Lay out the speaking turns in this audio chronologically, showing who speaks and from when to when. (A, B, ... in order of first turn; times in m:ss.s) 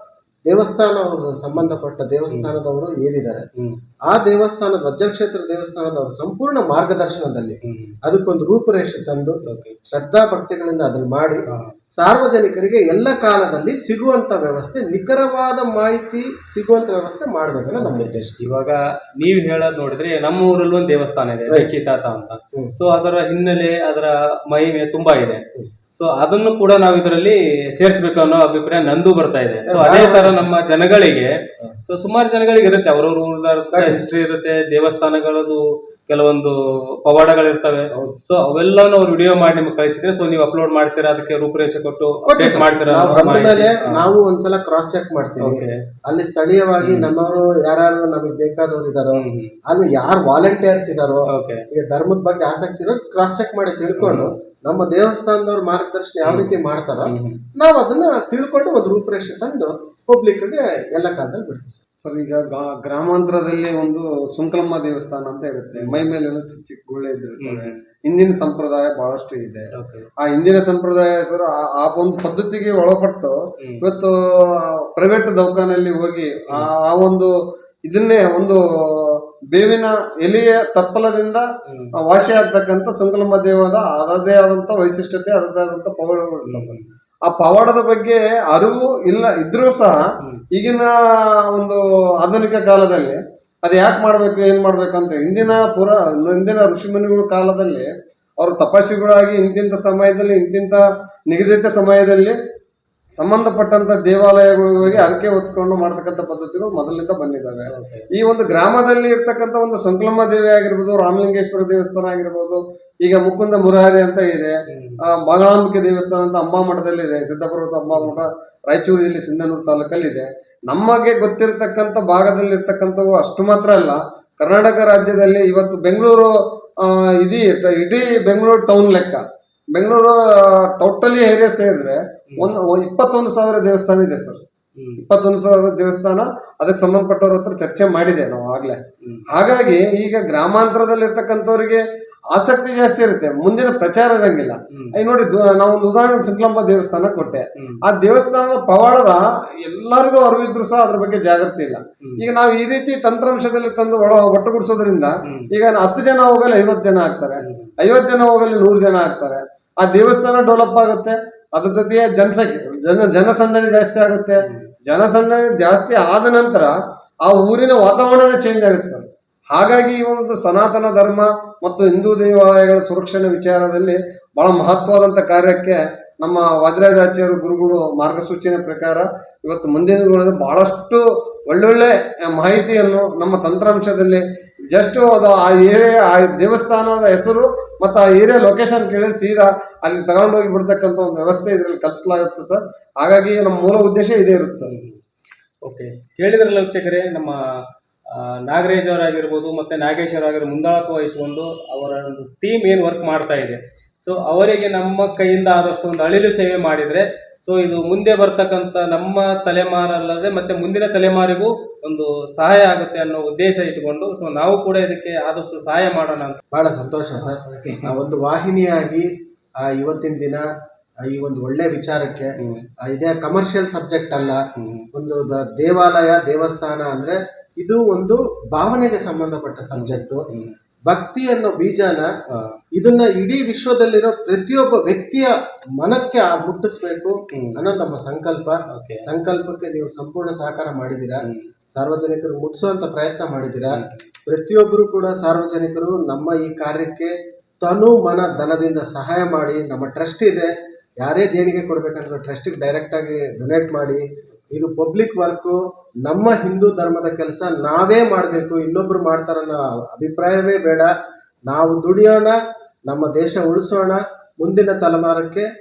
0:00.5-0:03.4 A
0:04.1-0:11.4 A
0:07.6-0:08.0 B
0:09.5-0:09.8 B
0:12.0-0:18.5 A
0:17.8-0:25.4 B
0:21.5-0:21.8 A
0:25.9-0:31.3 B
0:29.7-0:30.5 A
0:31.8-0:44.0 B
0:33.7-0:34.0 A
0:37.9-0:38.2 A
0:42.2-1:01.8 A
0:45.4-0:45.8 B
0:46.8-0:47.1 B
0:49.2-0:49.6 B
0:51.3-0:51.6 B
0:54.0-0:54.4 B
0:56.2-0:57.4 B
1:02.0-1:09.7 C
1:05.7-1:06.0 B
1:07.4-1:07.8 B
1:09.7-1:10.1 B
1:10.2-1:17.3 C
1:17.8-1:21.4 C
1:21.7-1:21.9 B
1:22.0-1:30.0 C
1:26.5-1:26.9 B
1:30.5-1:30.9 C
1:31.5-1:37.9 C
1:38.4-1:42.4 C
1:43.2-1:54.5 C
1:44.8-1:45.1 B
1:47.7-1:48.1 B
1:54.7-1:55.0 B
1:55.1-2:09.2 C
1:57.9-1:58.2 B
2:09.7-2:14.4 C
2:14.8-2:15.0 B
2:15.0-2:46.7 C
2:27.2-2:27.8 B
2:32.0-2:32.3 B
2:37.4-2:37.7 B
2:44.4-2:44.7 B
2:47.2-3:04.2 C
3:04.7-3:14.7 C
3:14.6-3:15.0 B
3:15.6-3:17.4 B
3:18.1-3:36.4 B
3:36.5-3:39.1 A
3:37.3-3:37.9 B
3:39.6-3:40.4 A
3:41.1-3:44.4 A
3:42.4-3:42.6 B
3:44.6-3:44.9 B
3:44.9-3:50.3 A
3:49.7-3:50.5 B
3:50.9-3:52.1 A
3:52.8-4:20.9 A
3:58.7-3:59.0 B
4:03.7-4:04.1 B
4:21.5-4:22.4 A
4:22.9-4:25.4 A